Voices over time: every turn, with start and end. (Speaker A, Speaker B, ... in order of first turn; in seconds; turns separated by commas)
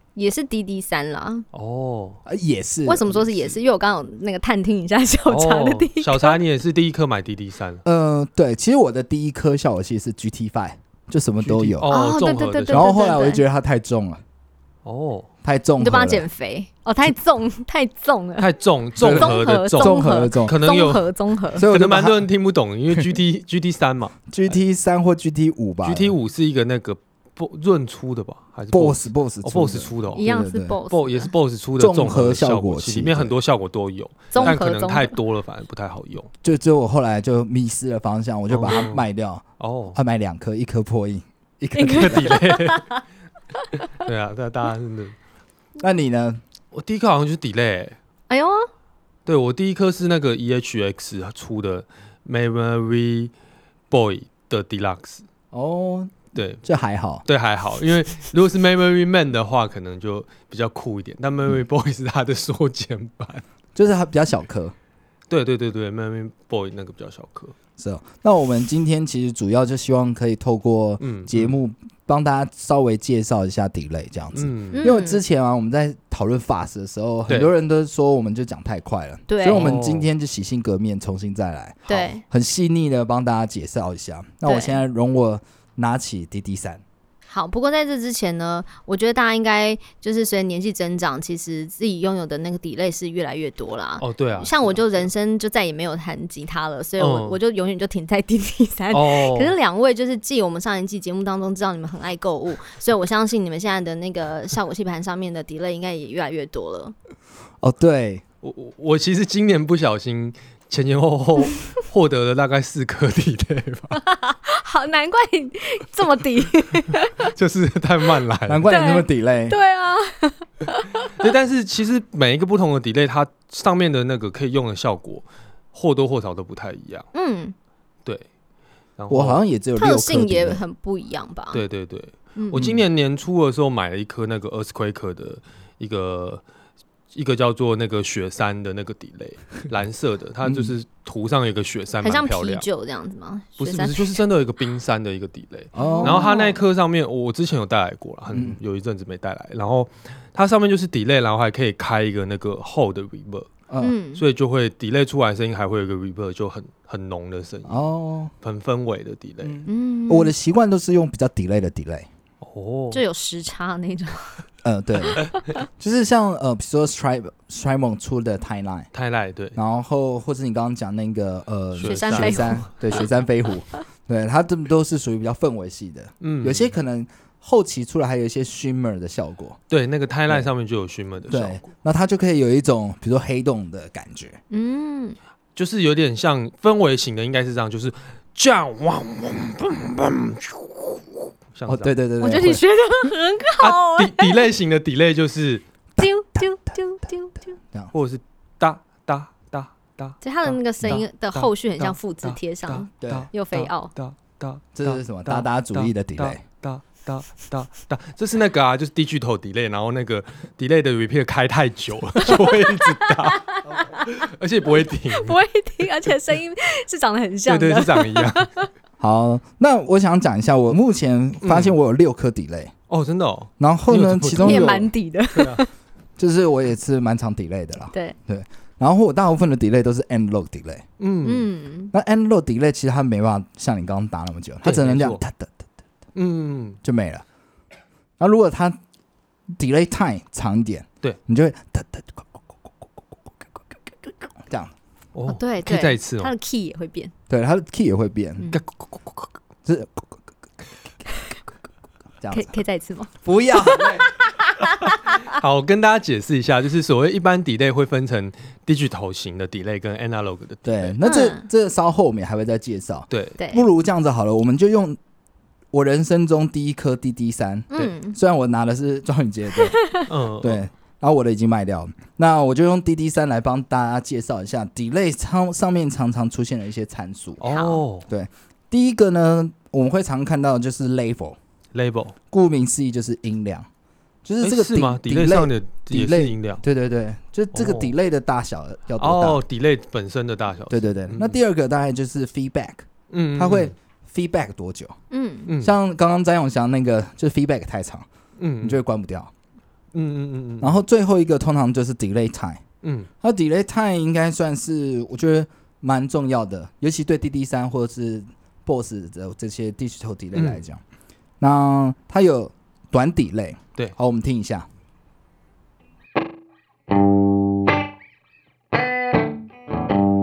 Speaker A: 0.2-1.4, Speaker B: 1.5-2.2, Speaker C: 2.2-3.3, Speaker A: 2.9-6.4, Speaker B: 5.3-7.8, Speaker C: 7.8-11.9, Speaker B: 11.4-13.2, Speaker A: 11.9-13.4, Speaker C: 12.7-14.2, Speaker B: 14.8-15.3, Speaker C: 15.4-16.3, Speaker A: 15.8-18.5, Speaker B: 18.4-21.1, Speaker C: 19.0-20.6, Speaker A: 19.1-21.7, Speaker C: 21.6-22.3, Speaker B: 21.6-24.6, Speaker C: 22.9-23.2, Speaker C: 24.3-26.2, Speaker B: 25.8-30.2, Speaker C: 28.7-30.8, Speaker A: 30.2-31.3, Speaker B: 30.9-36.3, Speaker C: 31.8-33.3, Speaker A: 34.3-35.2, Speaker C: 36.4-39.4, Speaker B: 38.5-39.1, Speaker B: 39.6-40.0, Speaker C: 39.9-42.4, Speaker A: 41.8-43.0, Speaker B: 42.0-42.9, Speaker B: 44.0-45.2, Speaker C: 45.8-46.4, Speaker B: 46.7-48.0, Speaker A: 48.3-48.7, Speaker B: 49.2-53.3, Speaker B: 53.9-55.2, Speaker C: 55.5-57.2, Speaker B: 56.3-56.6, Speaker B: 57.2-63.4, Speaker C: 63.8-64.7, Speaker B: 65.3-67.5, Speaker C: 67.8-86.8, Speaker B: 71.0-71.5, Speaker B: 74.3-74.9, Speaker A: 74.8-75.2, Speaker B: 77.3-77.5, Speaker A: 79.3-79.7, Speaker B: 79.4-80.1, Speaker A: 81.9-82.2, Speaker A: 84.5-84.8, Speaker A: 87.3-106.9, Speaker B: 94.0-95.1, Speaker B: 97.0-97.4, Speaker B: 98.9-99.5, Speaker C: 107.6-108.2, Speaker B: 108.4-114.0, Speaker A: 113.9-117.3, Speaker B: 117.2-118.7, Speaker C: 118.5-119.5, Speaker A: 118.7-121.1, Speaker B: 121.2-127.1, Speaker A: 127.1-127.5, Speaker B: 129.0-129.4, Speaker C: 129.1-130.6, Speaker A: 129.8-131.6, Speaker B: 131.5-136.4, Speaker A: 132.3-132.7, Speaker B: 137.1-142.7, Speaker C: 140.4-140.7, Speaker A: 142.0-144.2, Speaker B: 143.6-153.5, Speaker C: 145.7-146.3, Speaker A: 145.8-146.6, Speaker C: 148.3-148.6, Speaker C: 153.7-153.9, Speaker A: 153.8-154.2, Speaker B: 154.2-157.8, Speaker C: 157.7-158.3, Speaker B: 158.4-159.6, Speaker C: 159.4-162.1, Speaker A: 159.7-160.3, Speaker B: 162.4-163.0, Speaker A: 162.9-164.4, Speaker C: 164.6-168.9, Speaker A: 165.1-165.6, Speaker B: 168.9-169.6, Speaker C: 169.6-179.6, Speaker B: 171.8-172.7, Speaker A: 171.8-173.0, Speaker B: 176.2-176.7, Speaker B: 179.7-181.7, Speaker C: 181.3-184.4, Speaker A: 184.5-185.2, Speaker B: 185.6-191.9, Speaker C: 191.7-192.6, Speaker A: 192.2-194.5, Speaker B: 193.6-195.6, Speaker C: 196.0-196.5, Speaker A: 196.0-197.6, Speaker B: 197.9-215.4, Speaker A: 200.2-203.9, Speaker C: 203.0-203.3, Speaker C: 204.7-206.4, Speaker A: 212.2-214.1, Speaker A: 215.1-218.7, Speaker B: 217.5-218.5, Speaker C: 219.0-222.7, Speaker B: 221.4-221.8, Speaker B: 222.9-225.6, Speaker C: 223.6-224.8, Speaker A: 224.4-225.7, Speaker C: 226.2-230.8, Speaker A: 227.9-228.2, Speaker B: 231.0-231.5, Speaker A: 231.2-231.9, Speaker C: 231.9-235.6, Speaker B: 234.6-235.2, Speaker B: 236.2-236.8, Speaker C: 236.8-237.2, Speaker C: 238.2-238.8, Speaker C: 239.5-242.4, Speaker C: 244.0-244.7, Speaker B: 245.1-246.3, Speaker A: 245.3-247.1, Speaker C: 247.3-248.5, Speaker B: 248.5-249.3, Speaker C: 249.7-250.2, Speaker C: 252.2-252.5, Speaker A: 252.3-255.3, Speaker C: 253.2-254.1, Speaker B: 255.1-261.0, Speaker C: 260.6-265.0, Speaker A: 261.0-261.5, Speaker B: 263.1-263.4, Speaker A: 263.4-263.6, Speaker C: 265.7-269.9, Speaker A: 267.7-268.2, Speaker A: 269.8-270.1, Speaker B: 270.1-270.7, Speaker C: 270.4-277.4, Speaker B: 277.4-278.1, Speaker A: 277.5-277.8, Speaker C: 278.1-281.4, Speaker B: 281.7-282.1, Speaker C: 282.3-283.7, Speaker C: 284.2-289.4, Speaker B: 284.4-286.6, Speaker B: 287.5-287.9, Speaker B: 289.0-291.4, Speaker C: 290.7-294.9, Speaker B: 293.1-293.7, Speaker A: 295.1-295.5, Speaker B: 295.5-295.8, Speaker C: 295.6-298.1, Speaker B: 298.4-298.8, Speaker C: 298.6-299.3, Speaker B: 299.9-300.8, Speaker C: 300.6-302.6, Speaker B: 302.8-303.1, Speaker C: 303.2-310.8, Speaker B: 310.4-310.6, Speaker C: 311.4-314.7